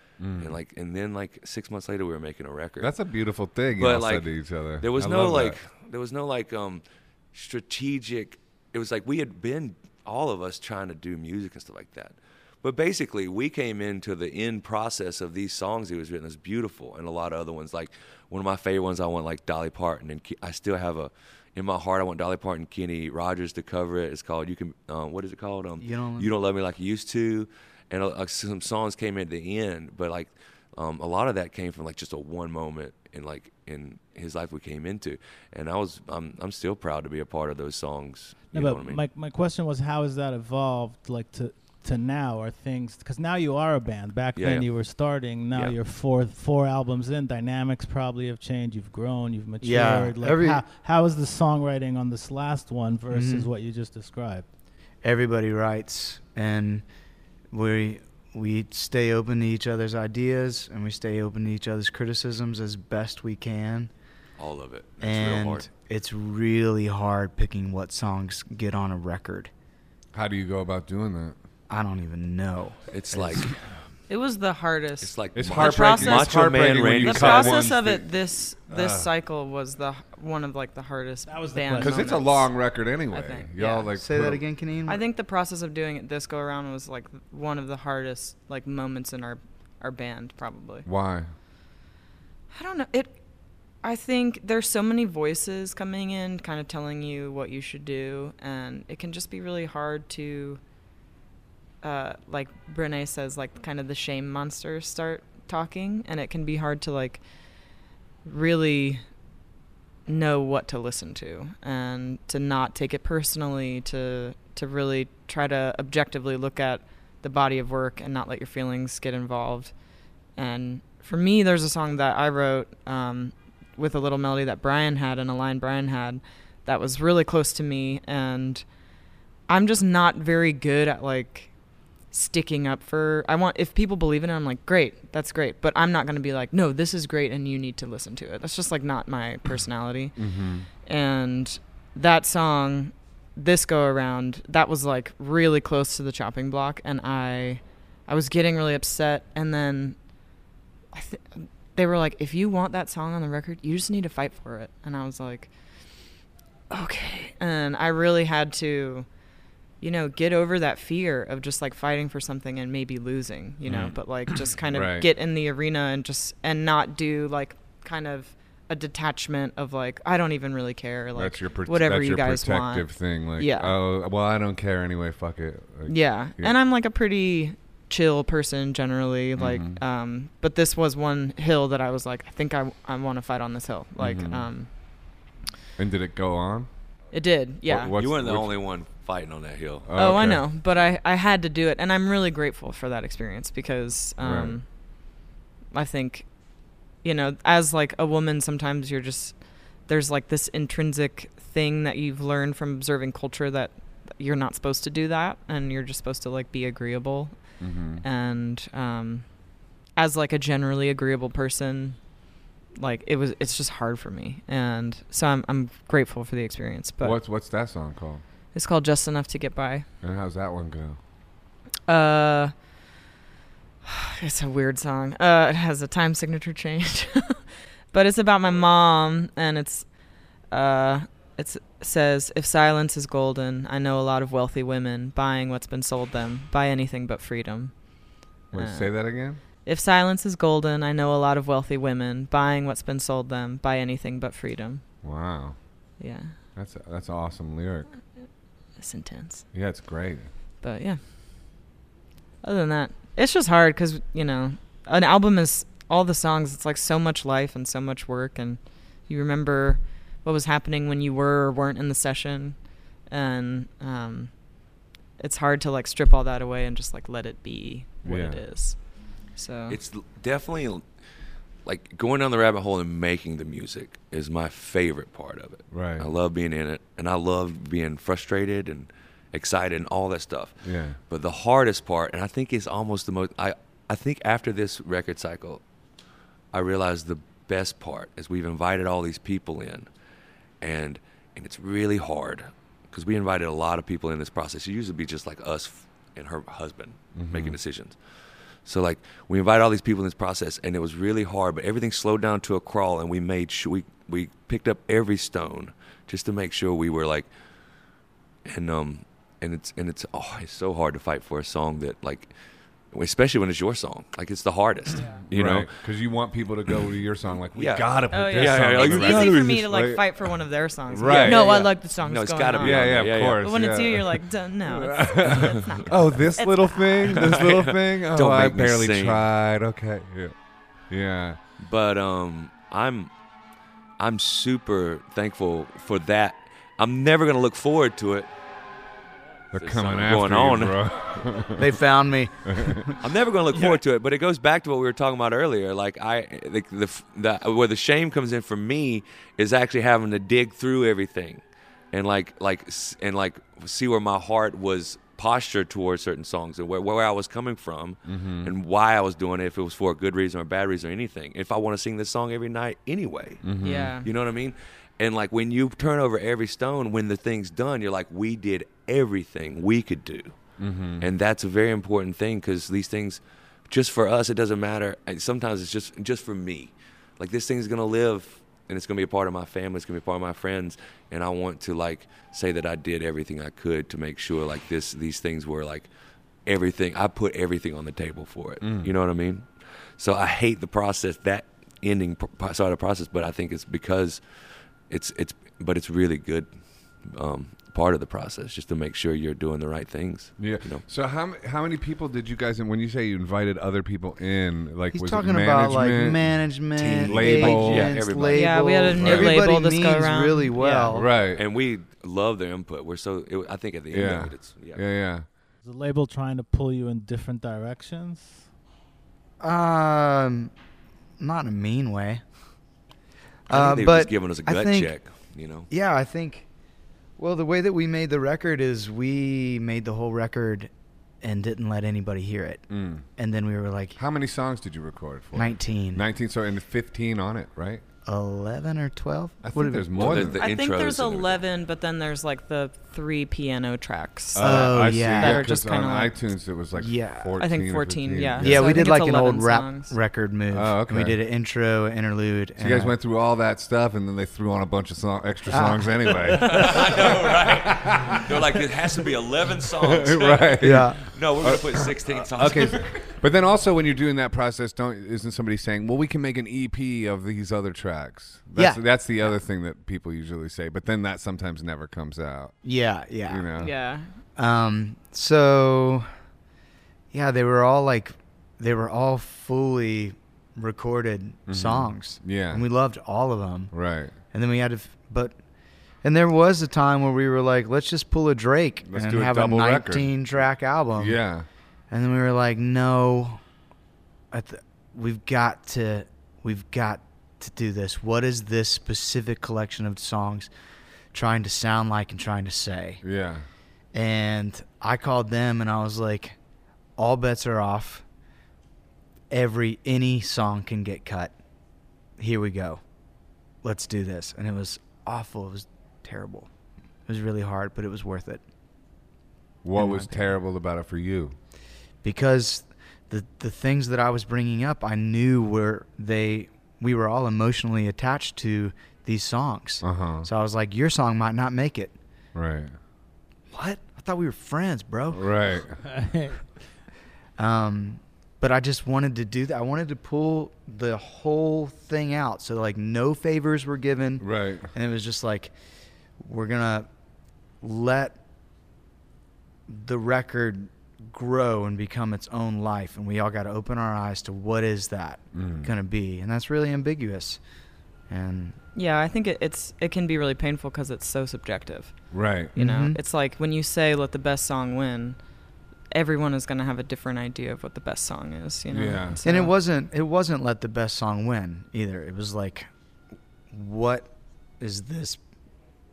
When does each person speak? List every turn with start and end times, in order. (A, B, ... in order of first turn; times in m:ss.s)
0:00.2-0:00.6 A
0:00.4-0:02.9 B
0:02.8-0:05.6 A
0:03.8-0:04.3 B
0:04.8-0:39.0 B
0:25.8-0:26.3 C
0:38.5-0:54.4 D
0:44.4-0:44.7 B
0:49.6-0:50.6 C
0:53.1-0:53.5 C
0:55.0-0:56.8 C
0:57.5-1:03.9 C
1:04.4-1:05.7 B
1:05.0-1:09.5 C
1:10.1-1:11.3 A
1:11.7-1:13.4 C
1:12.9-1:13.7 B
1:14.1-1:16.5 E
1:15.0-1:17.9 B
1:15.3-1:18.0 A
1:17.0-1:22.5 E
1:18.7-1:19.1 A
1:21.3-1:22.1 D
1:21.8-1:24.4 A
1:23.1-1:23.9 E
1:24.0-1:25.0 C
1:24.9-1:30.9 E
1:30.8-1:31.3 A
1:32.5-1:33.2 E
1:33.8-1:40.6 E
1:41.8-1:47.2 E
1:48.2-1:49.0 E
1:50.1-1:59.7 E
2:00.4-2:08.6 E
2:09.5-2:11.5 E
2:12.1-2:20.2 E
2:20.2-2:20.7 A
2:20.8-2:30.0 E
2:30.9-2:35.5 E
2:36.7-2:39.1 E
2:39.8-2:52.8 E
2:43.6-2:44.0 A
2:44.7-2:45.1 A
2:51.1-2:56.5 A
2:53.4-2:53.7 E
2:55.9-3:04.7 E
2:59.4-2:59.8 A
3:04.0-3:04.5 A
3:05.8-3:06.7 A
3:07.1-3:07.9 E
3:07.6-3:08.5 A
3:07.9-3:09.9 B
3:09.8-3:10.4 A
3:10.0-3:14.6 E
3:14.2-3:14.6 A
3:15.7-3:16.3 E
3:17.0-3:27.4 E
3:27.6-3:28.0 A
3:28.0-3:29.2 E
3:30.0-3:32.0 E
3:32.8-3:37.2 E
3:37.0-3:38.2 A
3:38.5-3:39.8 E
3:40.0-3:41.0 A
3:41.9-3:42.5 E
3:43.8-3:49.9 E
3:50.5-3:57.7 E
3:58.5-3:58.9 E
3:58.5-3:59.4 A
3:59.6-4:04.8 E
4:05.0-4:05.6 A
4:06.0-4:06.3 E
4:06.6-4:07.9 A
4:08.8-4:09.4 E
4:09.5-4:10.3 A
4:10.6-4:11.0 E
4:12.4-4:24.3 E
4:25.2-4:28.8 E
4:28.0-4:28.4 A
4:29.4-4:29.8 E
4:29.7-4:30.8 B
4:31.6-4:45.6 B
4:35.7-4:36.1 A
4:40.6-4:41.0 A
4:46.5-4:49.9 B
4:50.6-4:58.0 B
4:57.1-4:57.6 A
4:58.6-5:07.3 B
5:08.4-5:12.3 B
5:12.9-5:15.7 B
5:15.3-5:20.1 A
5:17.5-5:19.7 B
5:18.1-5:27.3 E
5:20.9-5:21.7 A
5:20.9-5:23.4 B
5:22.6-5:30.3 A
5:25.3-5:25.6 B
5:27.1-5:29.3 B
5:30.9-5:31.4 A
5:31.6-5:33.1 B
5:34.0-5:38.3 B
5:39.5-5:41.7 A
5:39.5-5:40.8 B
5:41.5-5:43.0 C
5:42.4-5:42.9 A
5:43.0-6:03.5 B
5:58.0-5:58.5 A
6:03.4-6:03.9 A
6:03.6-6:04.1 E
6:04.0-6:10.4 B
6:10.6-6:11.1 A
6:11.0-6:25.9 B
6:26.4-6:34.2 B
6:28.6-6:28.9 A
6:34.9-6:36.5 B
6:37.0-6:40.8 B
6:40.4-6:46.3 A
6:44.9-6:51.1 C
6:46.8-6:49.2 B
6:47.0-6:48.0 A
6:48.3-6:50.9 E
6:49.0-6:49.4 A
6:50.9-6:51.4 A
6:51.3-6:54.8 B
6:53.9-6:55.2 A
6:55.6-6:58.4 D
6:59.4-7:00.5 C
7:01.2-7:02.2 C
7:03.5-7:04.9 C
7:03.5-7:05.7 B
7:05.7-7:06.4 C
7:07.2-7:10.7 C
7:11.2-7:12.6 C
7:12.7-7:13.0 A
7:13.2-7:14.0 C
7:14.0-7:17.8 A
7:15.3-7:16.0 C
7:18.0-7:20.2 C
7:19.4-7:20.4 A
7:20.0-7:21.4 B
7:20.2-7:26.1 E
7:24.3-7:28.8 A
7:24.4-7:25.5 C
7:26.8-7:27.4 C
7:27.4-7:29.9 E
7:28.4-7:32.9 C
7:30.5-7:31.2 A
7:32.6-7:38.6 A
7:35.5-7:36.2 C
7:36.3-7:42.9 B
7:39.8-7:52.5 A
7:40.6-7:41.0 C
7:48.6-7:48.8 C
7:52.6-7:53.5 C
7:53.3-7:53.7 A
7:53.6-7:54.1 E
7:54.4-7:56.1 C
7:57.1-8:03.7 C
8:01.5-8:02.6 A
8:03.7-8:04.1 A
8:04.3-8:05.4 C
8:06.0-8:11.2 C
8:08.8-8:10.1 A
8:11.0-8:11.4 A
8:11.9-8:13.4 C
8:14.3-8:20.5 C
8:21.1-8:23.0 C
8:23.0-8:23.4 A
8:23.9-8:26.4 C
8:27.0-8:28.0 C
8:29.3-8:31.3 C
8:32.2-8:32.8 C
8:33.6-8:36.5 C
8:37.1-8:38.4 C
8:39.6-8:41.3 A
8:39.8-8:40.3 C
8:42.0-8:51.9 C
8:49.8-8:50.3 A
8:52.3-8:52.7 A
8:53.5-8:55.3 C
8:55.1-8:55.8 A
8:55.8-8:56.5 D
8:57.4-9:05.5 C
9:04.2-9:04.7 A
9:06.2-9:06.9 C
9:07.6-9:08.2 C
9:09.7-9:17.4 C
9:15.3-9:15.7 A
9:18.1-9:18.6 C
9:18.7-9:22.0 E
9:22.1-9:22.5 A
9:22.5-9:25.2 E
9:22.6-9:23.0 C
9:25.9-9:29.5 E
9:28.7-9:29.2 A
9:29.2-9:32.7 C
9:33.5-9:35.2 C